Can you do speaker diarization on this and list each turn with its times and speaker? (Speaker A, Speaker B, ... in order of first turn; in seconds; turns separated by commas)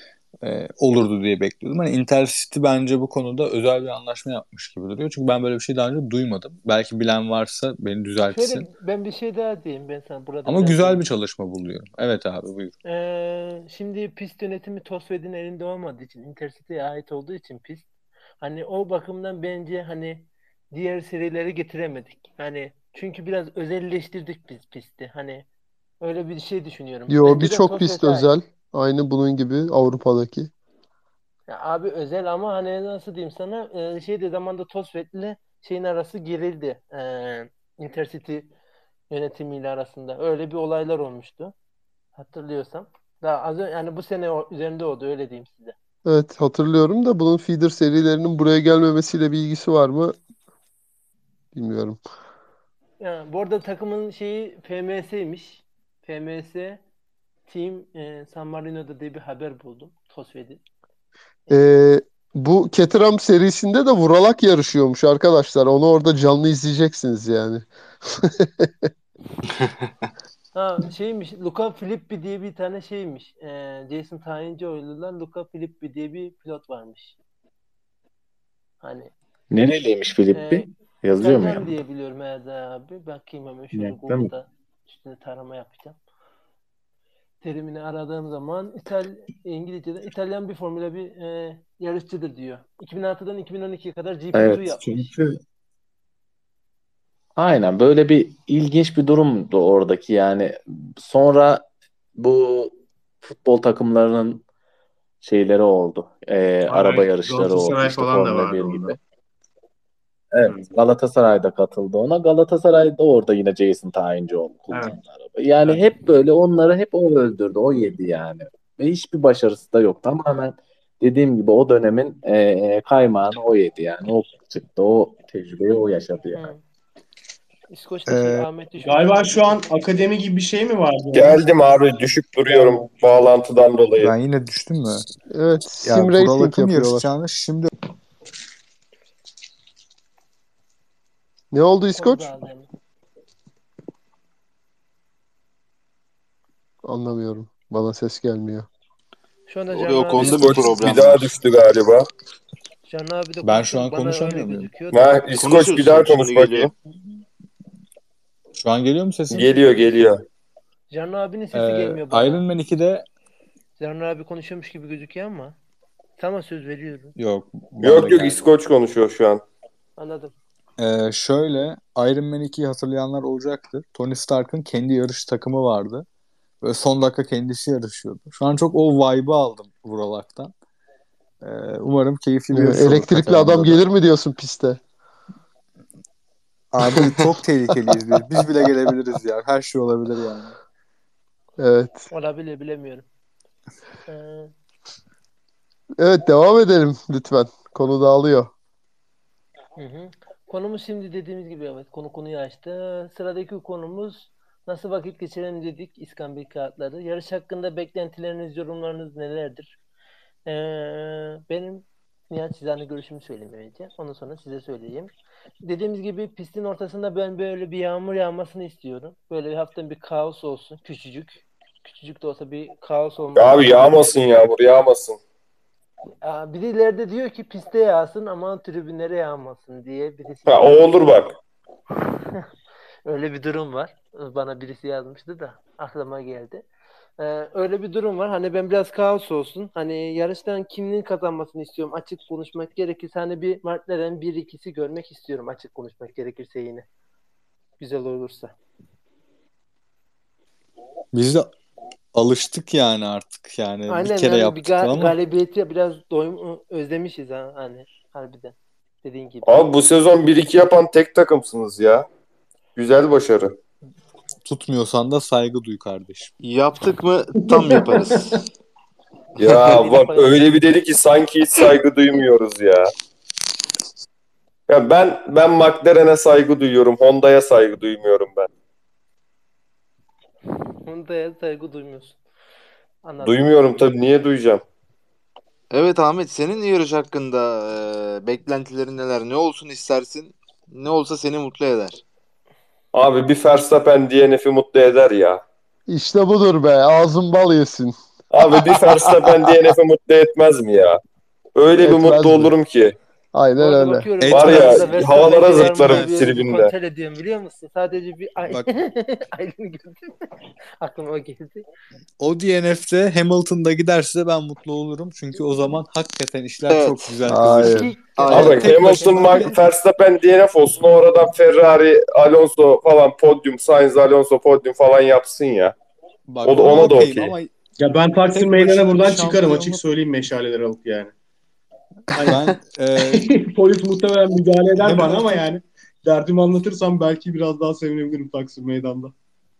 Speaker A: 0.4-8.7, Speaker B: 8.3-11.0, Speaker A: 10.4-12.7, Speaker B: 12.9-17.9, Speaker B: 18.4-25.4, Speaker B: 26.0-28.3, Speaker C: 27.1-30.5, Speaker B: 31.5-38.5, Speaker B: 39.1-41.5, Speaker B: 42.1-45.7, Speaker C: 46.0-50.1, Speaker C: 51.5-52.0, Speaker B: 53.0-56.8, Speaker B: 57.5-60.6, Speaker C: 61.5-68.9, Speaker B: 70.5-77.1, Speaker B: 78.8-79.1, Speaker D: 79.5-81.7, Speaker B: 80.3-80.7, Speaker B: 81.2-86.0, Speaker D: 83.7-84.3, Speaker B: 87.4-95.0, Speaker D: 94.3-95.4, Speaker D: 97.4-104.4, Speaker D: 105.2-109.0, Speaker E: 106.7-109.0, Speaker D: 110.3-126.5, Speaker E: 114.7-115.0, Speaker B: 126.3-126.6, Speaker B: 127.7-129.7, Speaker A: 128.1-128.5, Speaker E: 128.8-131.4, Speaker F: 131.1-134.1, Speaker E: 132.5-132.9, Speaker A: 134.0-135.0, Speaker C: 135.3-137.1, Speaker A: 135.8-137.7, Speaker C: 141.5-142.3, Speaker B: 141.9-142.7, Speaker C: 146.8-148.7, Speaker B: 149.5-150.9, Speaker G: 149.7-151.4, Speaker F: 150.2-152.1, Speaker B: 152.8-155.1, Speaker A: 153.4-154.7, Speaker F: 154.9-156.7, Speaker G: 155.4-156.7, Speaker A: 158.6-159.9, Speaker F: 159.3-160.2, Speaker B: 160.9-162.4, Speaker A: 161.5-163.1, Speaker B: 163.8-165.6, Speaker B: 166.2-167.1, Speaker A: 167.2-168.5, Speaker F: 167.8-169.4, Speaker B: 170.0-170.3, Speaker A: 170.8-176.1, Speaker A: 176.6-180.5, Speaker A: 181.4-183.8, Speaker C: 182.5-184.8, Speaker A: 186.7-190.6, Speaker C: 191.6-192.1, Speaker B: 192.1-193.1, Speaker B: 194.1-194.5, Speaker C: 196.0-198.5, Speaker B: 199.8-209.7, Speaker B: 210.5-215.1, Speaker B: 215.6-224.0, Speaker F: 223.4-225.2, Speaker B: 226.2-231.2, Speaker F: 230.5-231.3, Speaker B: 233.1-236.6, Speaker B: 237.2-246.8, Speaker B: 247.8-248.6, Speaker A: 251.1-251.5, Speaker A: 252.1-255.2, Speaker B: 253.9-259.8, Speaker F: 259.4-262.1, Speaker F: 262.8-263.6, Speaker A: 264.4-266.3, Speaker G: 266.4-268.4, Speaker E: 267.4-268.4, Speaker F: 269.4-272.9, Speaker B: 269.5-270.4, Speaker F: 274.7-278.5, Speaker B: 280.9-282.2, Speaker B: 283.1-283.5, Speaker F: 283.2-284.6, Speaker G: 285.7-292.0, Speaker F: 292.9-295.4, Speaker C: 295.9-297.9, Speaker F: 298.3-301.0, Speaker C: 298.6-299.7, Speaker F: 301.6-302.9, Speaker C: 301.8-302.5, Speaker C: 303.3-304.1, Speaker B: 303.6-310.1, Speaker A: 304.2-306.2, Speaker F: 304.3-306.7, Speaker B: 310.8-311.6, Speaker A: 312.2-319.6, Speaker G: 316.7-319.5, Speaker B: 317.7-318.3, Speaker F: 318.3-325.7, Speaker A: 326.3-327.5, Speaker F: 326.4-327.3, Speaker E: 327.8-331.1, Speaker A: 328.3-329.8, Speaker E: 332.1-339.1, Speaker A: 332.2-333.3, Speaker A: 334.8-335.3